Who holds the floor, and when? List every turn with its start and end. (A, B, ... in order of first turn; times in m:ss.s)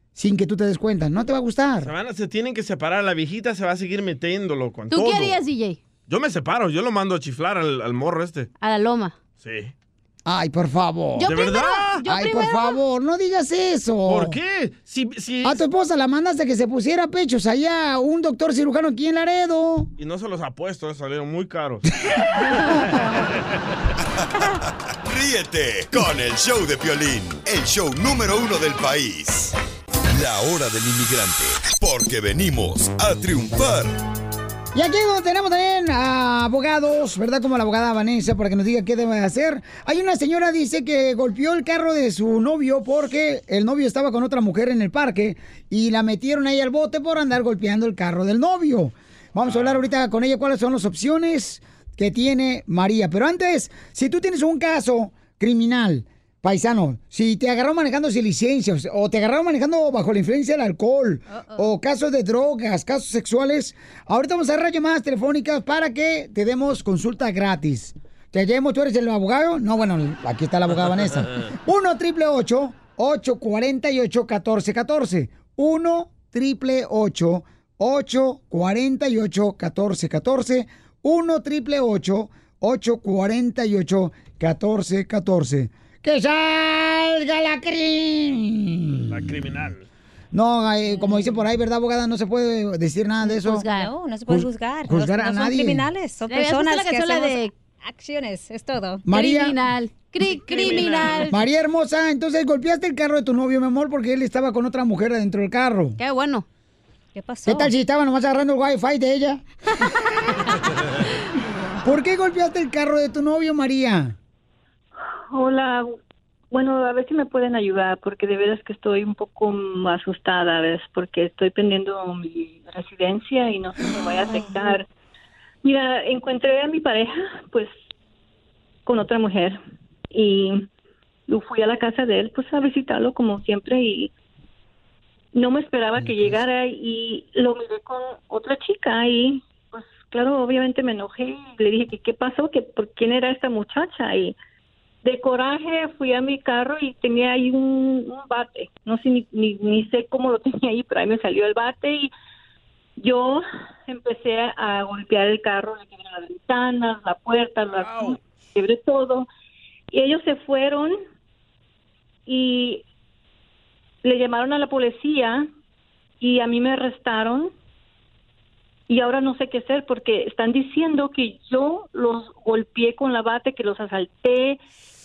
0:00.1-0:01.9 A
0:01.8-0:05.4 B
0:04.9-0:05.8 C
0:06.1-0:08.5 B
0:08.6-0:09.2 C
0:09.4-0:09.7 B
0:10.2-0:11.3 A
0:11.2-0:12.8 C
0:11.2-0:12.0 B
0:12.0-0:14.4 A
0:14.0-0:15.6 B
0:15.4-0:19.9 A
0:20.0-0:21.9 B
0:22.5-0:23.3 C
0:25.0-0:29.5 D
0:30.1-0:34.0 D
0:34.7-1:29.3 A
0:49.4-0:49.8 B
1:01.3-1:01.6 C
1:29.1-1:29.8 B
1:30.3-1:33.7 A
1:33.2-1:33.9 C
1:33.7-1:39.0 E
1:34.3-1:35.8 A
1:36.3-1:37.5 C
1:39.0-1:39.6 A
1:39.1-1:41.4 C
1:40.3-1:41.3 B
1:41.3-1:46.0 A
1:46.0-1:46.4 C
1:47.1-1:47.7 E
1:47.4-1:49.8 A
1:51.8-1:54.2 A
1:55.3-1:55.9 F
1:56.5-2:04.8 F
2:05.6-2:07.7 F
2:08.8-2:09.6 F
2:10.1-2:10.6 F
2:11.3-2:14.1 F
2:15.3-2:24.3 F
2:25.0-2:32.1 F
2:33.0-2:39.3 F
2:37.8-2:38.2 B
2:39.9-2:41.0 F
2:42.3-2:42.8 F
2:44.0-2:45.4 F
2:46.2-2:47.5 F
2:48.9-2:54.6 F